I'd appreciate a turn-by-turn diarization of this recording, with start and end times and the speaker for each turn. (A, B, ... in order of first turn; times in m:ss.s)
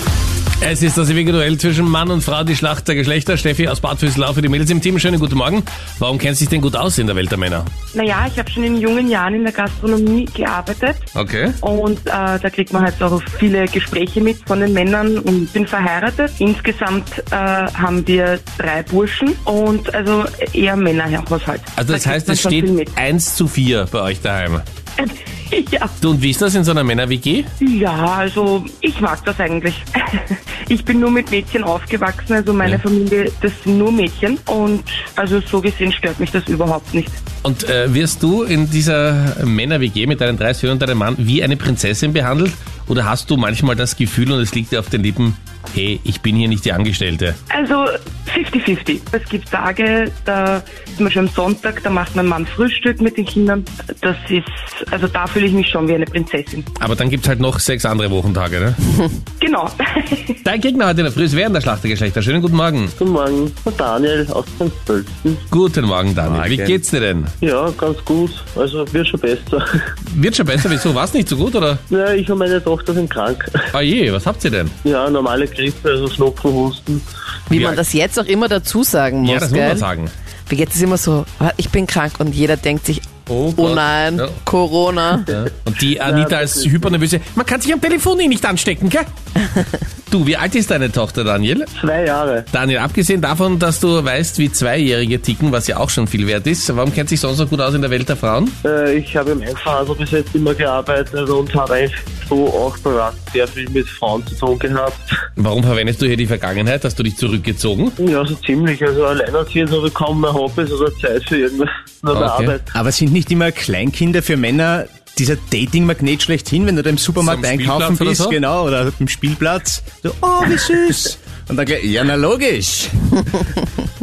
0:00.6-0:07.7 A
0:07.9-0:11.0 B
0:11.2-0:11.6 A
0:11.6-0:22.9 B
0:21.8-0:24.6 A
0:25.0-0:25.9 B
0:26.0-0:27.5 A
0:27.6-0:37.2 B
0:37.4-0:47.4 A
0:47.5-0:56.6 B
0:56.8-0:58.8 A
0:59.4-1:00.4 B
1:00.4-1:02.9 A
1:03.0-1:05.4 C
1:05.5-1:07.3 A
1:06.2-1:06.8 D
1:07.4-1:09.7 C
1:10.1-1:11.8 A
1:11.9-1:13.6 C
1:13.7-1:14.8 A
1:14.8-1:17.0 C
1:17.5-1:19.9 E
1:17.5-1:17.8 A
1:19.2-1:20.1 A
1:20.5-1:25.3 E
1:23.3-1:24.4 A
1:25.3-1:29.1 A
1:26.0-1:27.0 C
1:30.1-1:31.7 A
1:31.8-1:32.5 C
1:32.5-1:38.6 A
1:38.6-1:45.0 C
1:45.4-1:48.0 A
1:48.0-1:52.7 C
1:52.1-1:52.6 A
1:52.7-2:03.2 D
1:57.2-1:58.4 A